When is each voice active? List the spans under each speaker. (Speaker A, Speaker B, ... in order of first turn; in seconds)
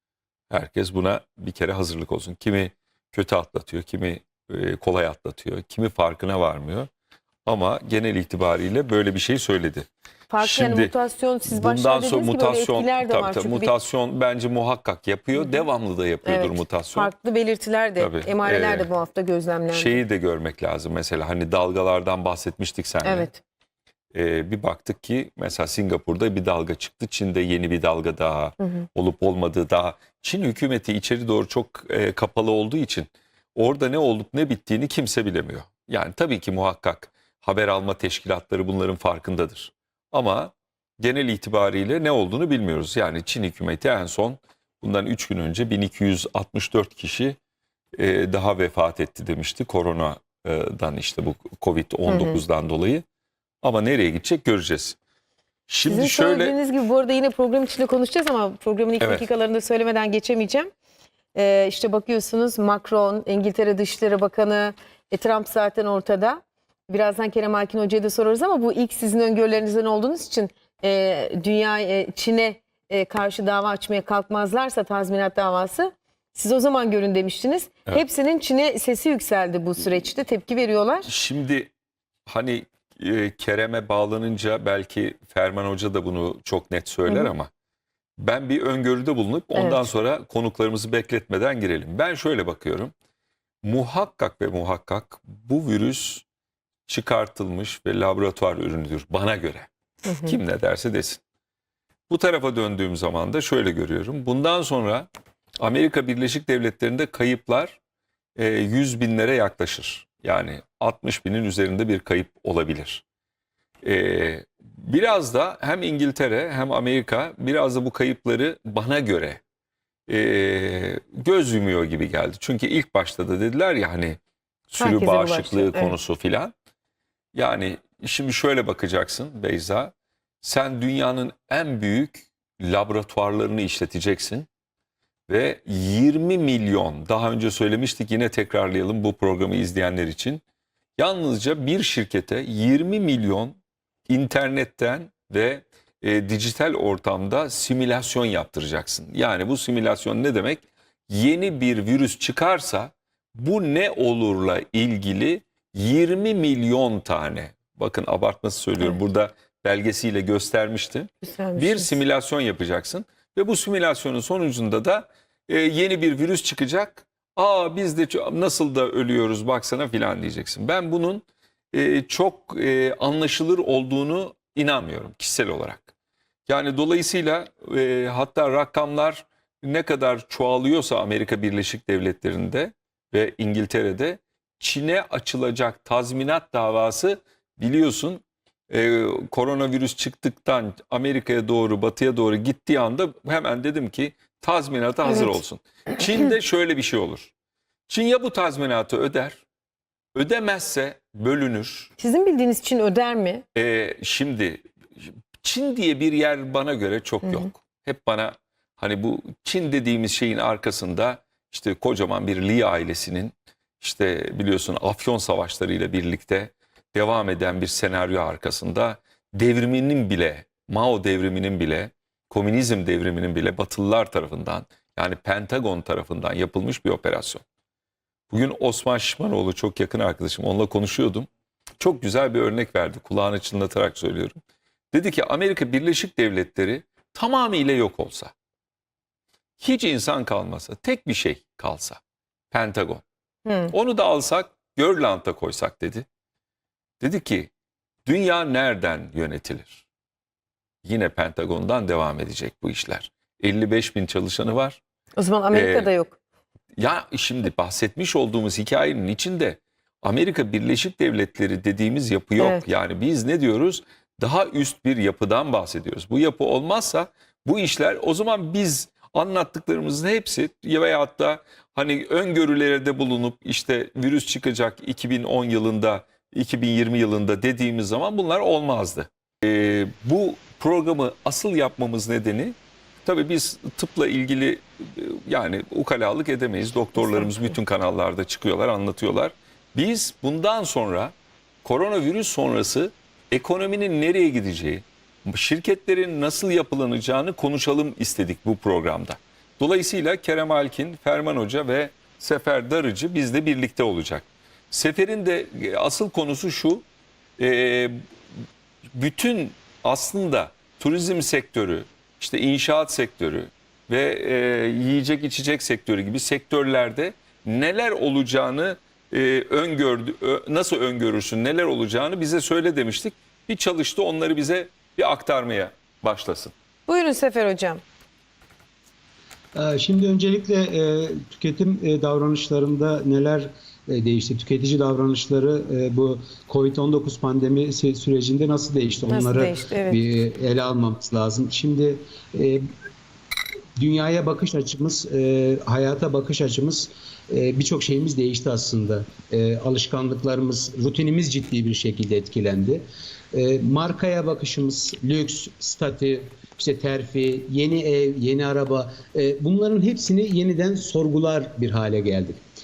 Speaker A: 0.5-6.9, 7.5-9.9, 10.4-10.9, 11.5-17.1, 18.0-18.9, 19.7-23.3, 24.1-47.4, 48.0-53.0, 53.6-55.0, 55.7-56.5, 59.0-59.3, 81.0-81.7, 82.3-87.5, 88.2-92.9, 93.6-96.2, 96.9-99.7, 100.2-101.2, 102.1-105.1, 105.6-107.8, 108.4-113.0, 113.8-119.4, 120.1-124.2, 124.7-126.5, 127.3-134.5, 135.3-140.4, 141.0-143.6, 144.1-175.9, 176.5-197.3, 197.9-199.4, 200.2-201.9, 203.5-204.7, 205.4-227.4, 228.3-231.3, 231.8-234.3, 234.9-238.3, 239.6-243.0, 243.7-246.1, 247.0-247.5, 248.1-249.8, 250.8-254.8, 255.5-255.9, 256.8-306.9, 307.4-308.0, 309.0-326.5
Speaker B: 10.3-13.7, 15.4-15.6, 16.2-20.0, 23.0-23.4, 52.1-52.4, 55.9-60.7, 61.4-81.1, 89.5-89.8, 100.1-100.4, 124.8-126.0, 161.3-161.9, 202.0-203.4, 243.4-243.7, 255.2-256.2, 262.4-262.7, 287.1-287.4, 326.9-327.8, 339.1-340.1
Speaker C: 329.6-342.6, 343.8-352.8, 353.3-362.4